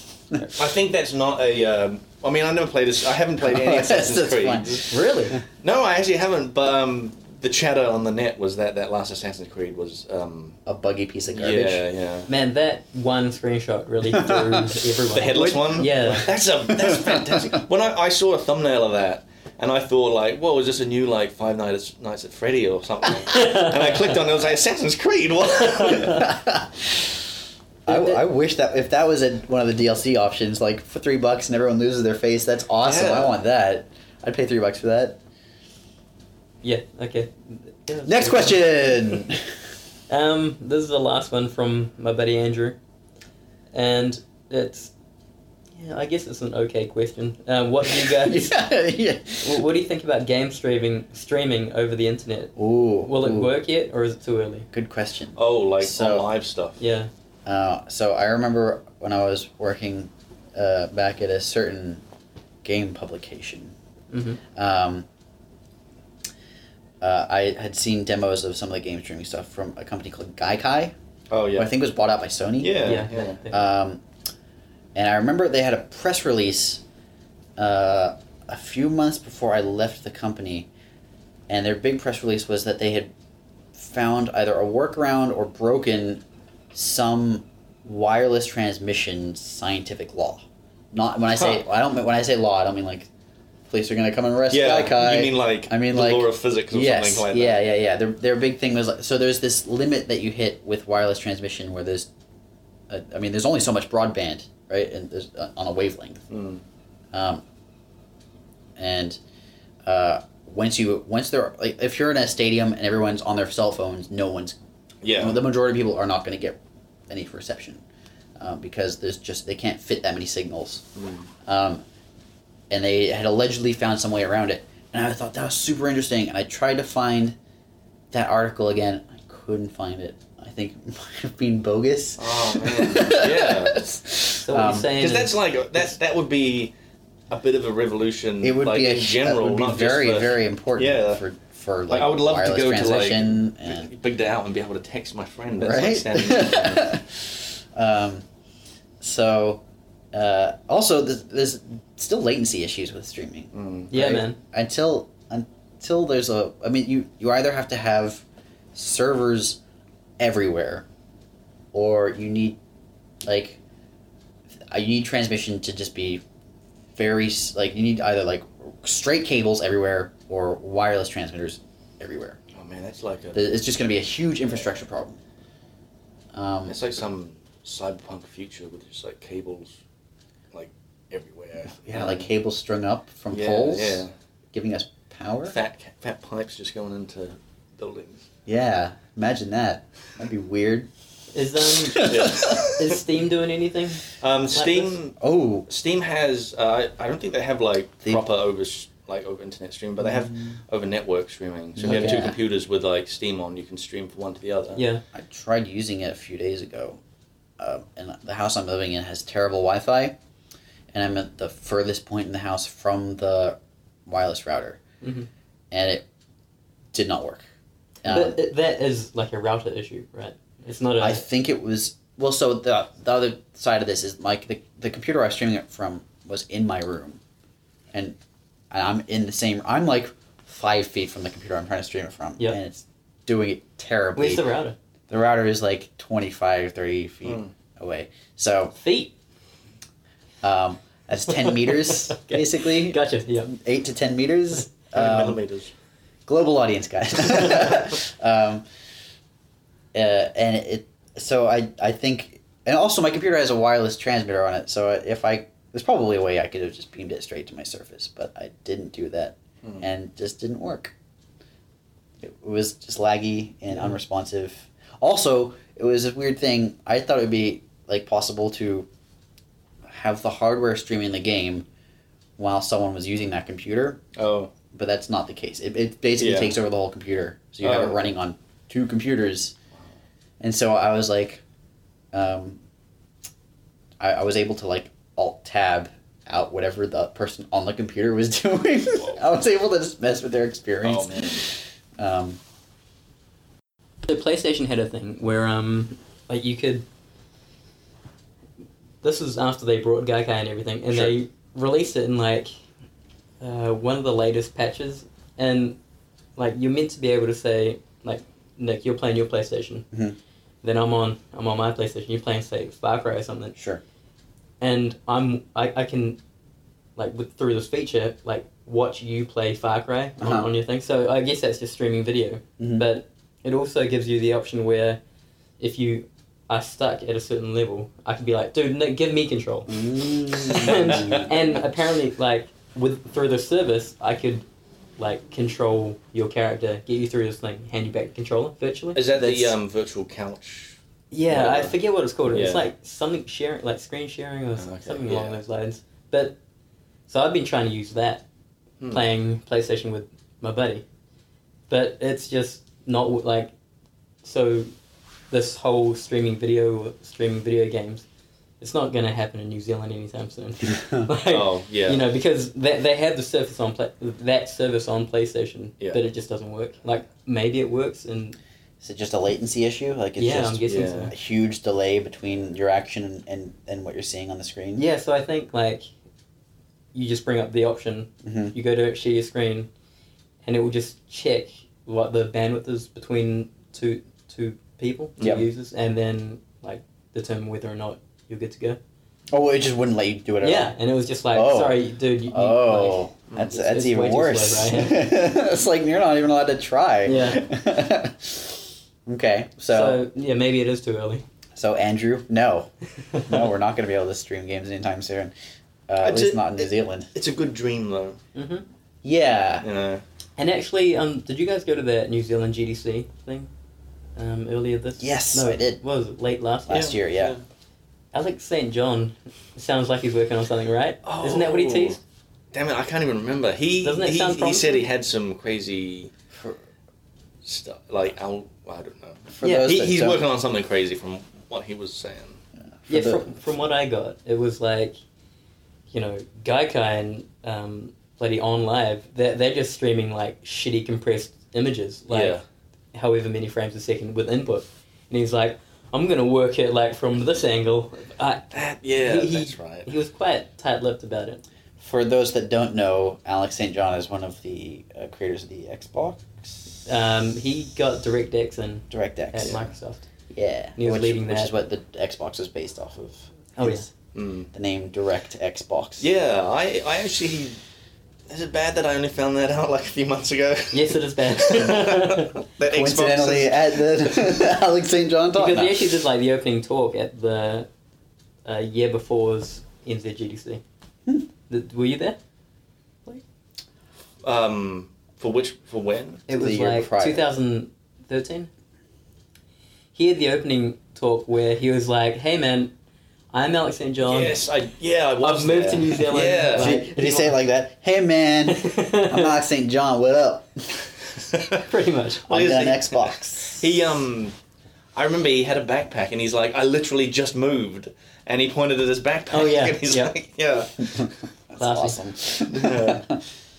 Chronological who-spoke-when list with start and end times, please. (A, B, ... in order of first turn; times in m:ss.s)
0:00.6-0:04.9 A
0:03.4-0:04.9 B
0:04.9-0:05.4 C
0:05.6-0:10.6 A
0:10.7-0:11.8 B
0:11.3-0:12.3 A
0:12.3-0:16.3 C
0:14.1-0:14.7 B
0:15.1-0:26.3 A
0:15.4-0:16.1 B
0:16.8-0:17.5 B
0:23.4-0:23.7 C
0:25.9-0:26.2 C
0:26.0-0:27.3 B
0:27.9-0:35.2 B
0:27.9-0:28.2 C
0:32.8-0:33.4 A
0:36.6-0:39.2 C
0:38.0-0:39.4 B
0:40.1-0:42.8 C
0:43.7-0:44.9 C
0:45.8-0:48.6 C
0:47.9-0:49.6 B
0:49.4-0:54.7 C
0:52.6-0:53.5 B
0:54.7-0:56.3 B
0:55.4-0:56.8 A
0:56.8-0:57.1 C
0:57.5-1:02.0 B
1:02.6-1:03.8 B
1:04.1-1:04.4 C
1:04.6-1:05.1 B
1:07.0-1:10.9 B
1:11.3-1:11.7 A
1:11.6-1:14.0 B
1:12.6-1:13.4 A
1:12.8-1:13.6 C
1:15.0-1:16.8 B
1:17.6-1:20.7 B
1:21.5-1:23.1 B
1:23.7-1:33.1 B
1:33.7-1:42.1 B
1:34.5-1:37.6 A
1:42.9-1:46.2 B
1:46.3-1:46.6 A
1:47.1-1:47.4 B
1:48.8-1:49.2 B
1:49.8-1:54.6 B
1:55.0-1:55.4 A
1:55.2-1:56.6 B
1:57.1-1:57.8 B
1:58.4-2:00.9 B
2:01.0-2:01.3 A
2:01.4-2:01.8 B
2:02.7-2:07.4 B
2:08.1-2:15.0 B
2:12.2-2:13.8 A
2:14.4-2:15.4 C
2:14.8-2:16.7 A
2:17.3-2:21.2 A
2:18.4-2:23.9 B
2:21.9-2:27.0 A
2:25.6-2:28.2 B
2:29.0-2:39.6 B
2:33.5-2:33.9 A
2:33.9-2:34.4 C
2:40.2-2:40.9 B
2:41.7-2:42.6 B
2:43.2-2:43.6 B
2:44.7-2:46.2 B
2:47.0-2:52.4 B
2:52.5-2:53.4 A
2:53.3-2:55.2 B
2:56.3-2:56.8 B
2:56.7-2:59.8 A
3:00.5-3:02.3 A
3:01.8-3:05.6 B
3:03.3-3:04.1 A
3:05.5-3:08.2 A
3:08.5-3:10.9 B
3:11.3-3:14.9 C
3:11.8-3:12.7 B
3:12.0-3:13.0 A
3:14.2-3:15.2 A
3:15.2-3:15.7 B
3:15.7-3:24.8 A
3:20.0-3:20.3 B
3:21.8-3:22.4 B
3:24.8-3:25.0 C
3:25.1-3:27.0 B
3:27.6-3:30.2 B
3:30.9-3:34.8 B
3:35.0-3:35.3 C
3:35.7-3:36.1 B
3:36.9-3:37.4 B
3:38.0-3:38.4 B
3:38.0-3:41.2 C
3:41.0-3:47.2 B
3:48.7-3:54.4 B
3:54.2-3:54.8 C
3:55.1-3:58.8 B
3:58.8-3:59.1 C
4:00.4-4:05.4 B
4:01.3-4:03.5 C
4:04.9-4:05.7 A
4:06.3-4:08.6 B
4:09.9-4:20.9 B
4:22.2-4:28.9 B
4:29.9-4:31.7 B
4:32.4-4:34.0 B
4:34.2-4:34.5 A
4:34.7-4:39.6 B
4:36.2-4:36.6 A
4:37.6-4:38.1 A
4:40.4-4:41.4 B
4:42.1-4:42.6 B
4:44.0-4:52.4 B
4:50.8-4:51.4 A
4:54.0-4:56.8 C
4:59.0-5:02.5 C
5:03.4-5:05.8 C
5:06.4-5:09.9 C
5:09.9-5:10.2 B
5:10.6-5:13.6 C
5:13.6-5:13.8 B
5:14.6-5:16.2 C
5:17.0-5:25.0 C
5:20.2-5:20.5 B
5:22.6-5:22.8 B
5:25.6-5:34.4 C
5:29.7-5:31.3 B
5:30.5-5:31.3 A
5:35.0-5:39.4 C
5:39.0-5:40.8 A
5:39.2-5:39.5 B
5:41.1-5:46.4 C
5:41.3-5:41.8 A
5:42.3-5:42.6 A
5:44.6-5:45.4 A
5:47.1-5:48.2 C
5:48.9-5:50.8 C
5:51.7-5:53.5 C
5:54.2-5:54.7 C
5:55.3-5:58.0 C
5:58.6-6:08.4 C
6:00.6-6:01.1 B
6:01.3-6:02.0 A
6:08.8-6:14.8 B
6:10.2-6:11.1 C
6:10.7-6:11.1 A
6:14.8-6:15.9 C
6:16.9-6:19.7 C
6:18.2-6:18.6 B
6:20.4-6:28.8 C
6:29.3-6:30.8 B
6:30.4-6:35.1 C
6:31.3-6:40.0 B
6:37.1-6:37.4 C
6:39.7-6:41.2 C
6:41.6-6:42.7 B
6:43.1-6:43.4 C
6:43.3-6:45.3 B
6:45.9-6:47.1 B
6:46.0-6:48.2 A
6:48.4-6:48.6 C
6:49.0-6:49.7 B
6:49.6-6:50.0 A
6:50.4-6:53.5 C
6:54.2-6:56.9 C
6:55.0-6:55.8 B
6:56.7-6:57.4 B
6:56.7-6:57.4 A
6:58.1-7:02.0 C
7:01.0-7:02.0 A
7:02.5-7:06.1 A
7:03.8-7:04.9 C
7:06.3-7:06.6 B
7:07.4-7:12.4 A
7:09.3-7:10.2 B
7:09.4-7:09.7 C
7:12.9-7:13.3 B
7:12.9-7:15.0 C
7:15.9-7:22.4 C
7:22.1-7:22.4 A
7:22.9-7:31.4 C
7:28.5-7:29.9 A
7:31.8-7:36.7 B
7:36.9-7:40.0 C
7:38.9-7:39.6 B
7:40.3-7:43.9 B
7:40.8-7:41.5 C
7:43.6-7:43.9 C
7:44.2-7:44.5 A
7:44.5-7:46.1 B
7:46.0-7:47.6 A
7:48.3-7:54.4 A
7:50.7-7:52.3 C
7:52.7-7:55.9 B
7:55.3-7:57.7 C
7:58.4-8:00.6 C
8:01.5-8:02.2 C
8:04.2-8:06.2 A
8:06.3-8:08.5 C
8:06.3-8:07.3 B
8:09.9-8:12.7 C
8:13.3-8:14.4 C
8:14.0-8:16.8 A
8:15.2-8:17.4 C
8:16.5-8:20.8 B
8:18.5-8:19.3 C
8:21.2-8:21.6 A
8:21.6-8:22.3 C
8:22.3-8:23.8 B
8:22.3-8:24.4 A
8:25.0-8:31.1 A
8:29.3-8:30.1 C
8:30.9-8:33.2 B
8:31.6-8:32.0 C
8:32.5-8:33.1 A